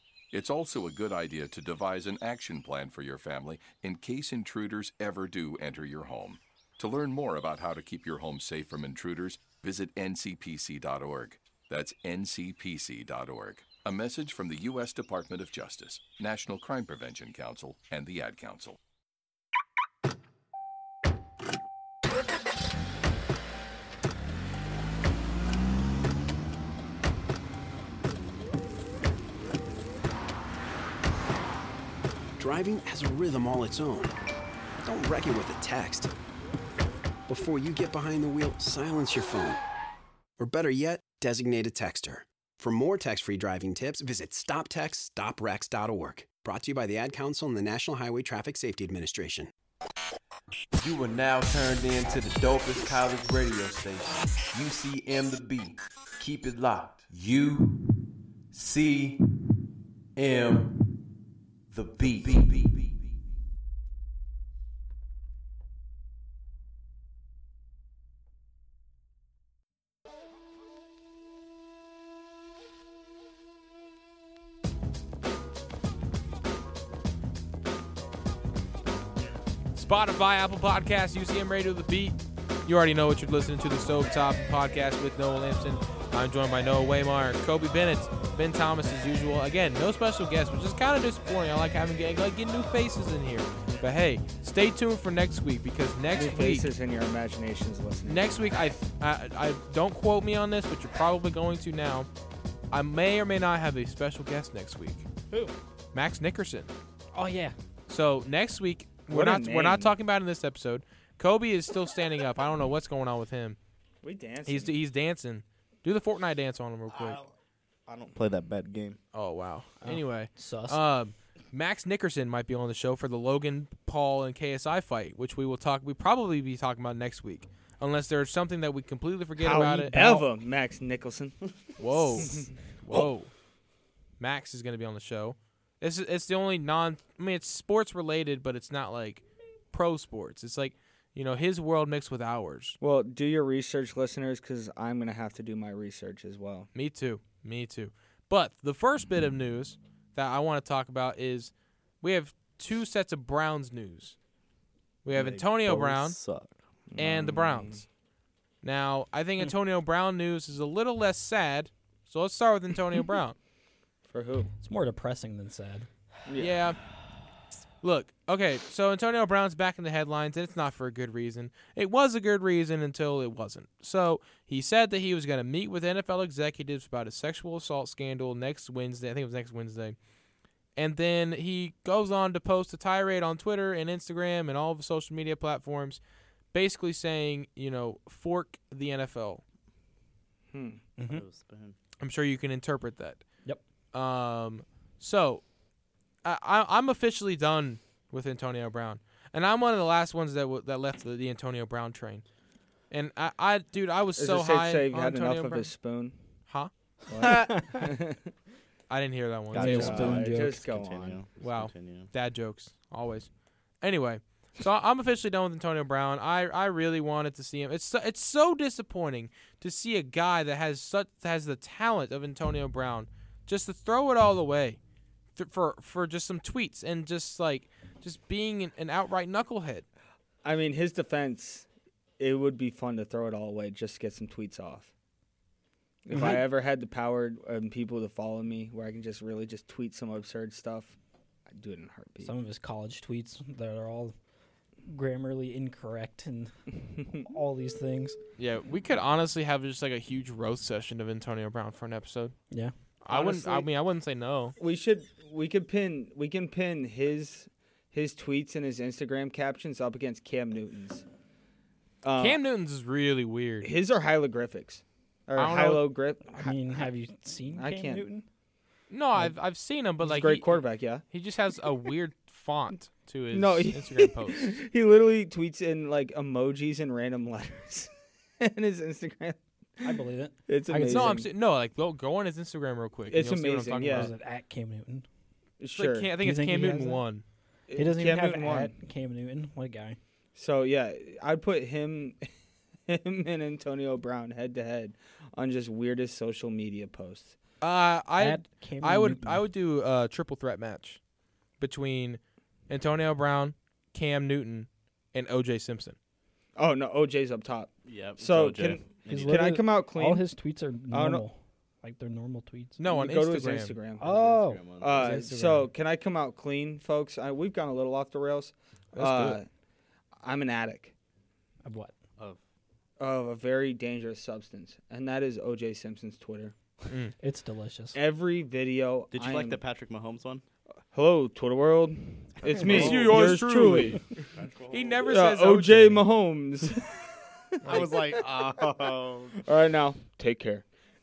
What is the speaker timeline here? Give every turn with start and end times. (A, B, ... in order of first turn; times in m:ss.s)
0:00.3-0:18.8 A
0:32.4-0:34.1 B
0:34.8-0:36.1 B
0:37.3-0:39.6 B
0:40.4-0:49.5 B
0:50.8-0:59.3 C
1:00.2-1:01.0 C
1:01.7-1:03.1 C
1:19.7-1:36.7 D
1:36.1-1:38.3 E
1:38.0-1:42.1 D
1:42.7-1:45.0 D
1:45.9-1:46.7 D
1:47.1-1:47.6 F
1:47.9-1:53.6 D
1:49.1-1:49.9 E
1:54.0-1:54.7 E
1:54.4-1:57.2 D
1:56.9-1:57.3 G
1:57.8-1:59.0 G
1:59.1-2:10.0 D
1:59.8-2:00.8 F
2:09.4-2:12.5 E
2:09.9-2:10.2 F
2:11.8-2:13.3 D
2:14.2-2:22.8 D
2:22.8-2:26.7 E
2:26.7-2:34.2 D
2:35.0-2:36.2 D
2:35.1-2:36.6 G
2:36.9-2:37.8 E
2:37.0-2:37.8 D
2:38.6-2:43.4 D
2:44.1-2:44.5 E
2:44.6-2:45.9 F
2:46.2-2:46.6 E
2:46.4-2:46.8 D
2:47.8-3:00.0 D
3:00.8-3:06.0 D
3:06.5-3:09.4 D
3:10.5-3:10.8 E
3:11.0-3:11.2 F
3:11.1-3:11.8 G
3:12.0-3:13.2 D
3:13.9-3:15.4 D
3:16.2-3:22.2 D
3:22.9-3:25.7 D
3:24.2-3:26.2 E
3:26.5-3:27.5 D
3:27.1-3:28.3 E
3:27.2-3:27.8 F
3:28.9-3:30.1 D
3:29.5-3:32.1 G
3:29.6-3:30.6 F
3:29.6-3:31.2 E
3:31.4-3:33.3 D
3:33.8-3:44.8 D
3:45.4-3:49.8 D
3:50.4-3:51.6 E
3:52.2-3:54.9 E
3:56.0-4:01.0 E
3:56.1-3:56.4 F
4:01.5-4:02.3 E
4:02.2-4:04.1 F
4:04.8-4:06.5 F
4:07.1-4:08.2 F
4:08.4-4:12.3 D
4:13.0-4:14.5 D
4:13.1-4:13.7 E
4:14.6-4:21.0 E
4:22.0-4:22.4 E
4:22.2-4:23.7 D
4:23.6-4:26.9 E
4:25.4-4:25.9 D
4:26.3-4:28.2 F
4:27.5-4:28.0 E
4:28.9-4:34.6 D
4:30.0-4:31.0 E
4:33.3-4:37.9 E
4:38.4-4:39.4 E
4:39.8-4:41.2 F
4:40.5-4:41.3 E
4:40.9-4:44.1 D
4:43.1-4:44.1 E
4:43.9-4:45.0 F
4:45.6-4:46.1 E
4:45.8-4:47.2 D
4:46.2-4:47.0 F
4:47.7-4:48.7 E
4:47.8-4:50.0 F
4:50.3-4:52.2 E
4:52.9-4:57.4 E
4:57.6-5:01.0 D
4:58.2-4:59.4 F
5:01.6-5:06.0 D
5:06.6-5:10.2 E
5:07.8-5:09.6 G
5:09.1-5:12.8 F
5:10.9-5:11.2 E
5:12.8-5:13.8 D
5:12.9-5:14.1 E
5:14.0-5:15.7 F
5:14.0-5:15.2 G
5:14.8-5:19.5 E
5:18.9-5:19.4 D
5:20.2-5:20.9 E
5:21.6-5:21.9 F
5:23.0-5:26.5 E
5:26.9-5:27.1 D
5:27.2-5:28.0 F
5:27.9-5:29.6 E
5:29.1-5:30.4 G
5:30.9-5:34.0 E
5:32.4-5:33.4 G
5:32.6-5:36.0 D
5:34.3-5:35.2 G
5:35.1-5:37.0 E
5:37.6-5:37.9 D
5:37.6-5:39.4 G
5:37.7-5:40.6 E